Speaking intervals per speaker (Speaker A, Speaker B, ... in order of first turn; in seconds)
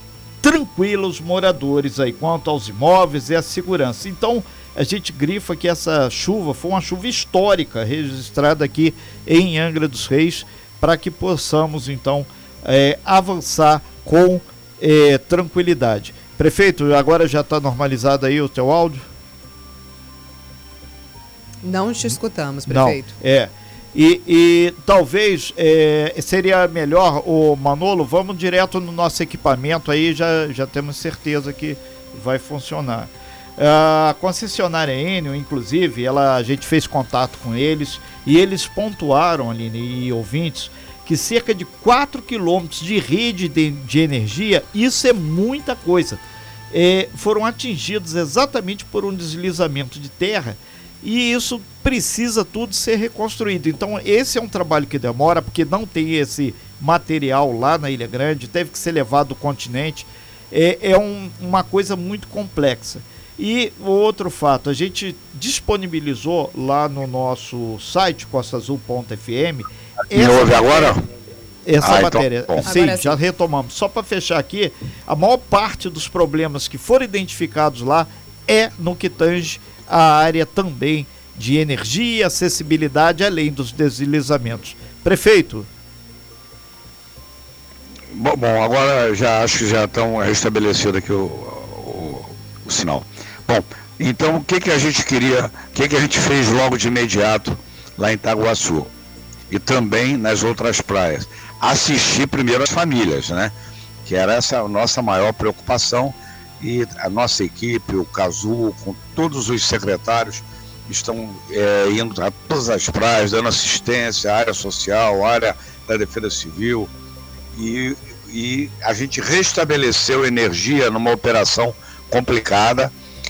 Speaker A: 0.4-19.1, 22.7-71.0, 71.6-85.7
Speaker B: 21.6-23.1, 72.6-73.2
Speaker C: 70.1-71.0, 71.8-72.7, 88.1-98.9, 99.5-103.5, 104.1-116.9, 117.5-122.9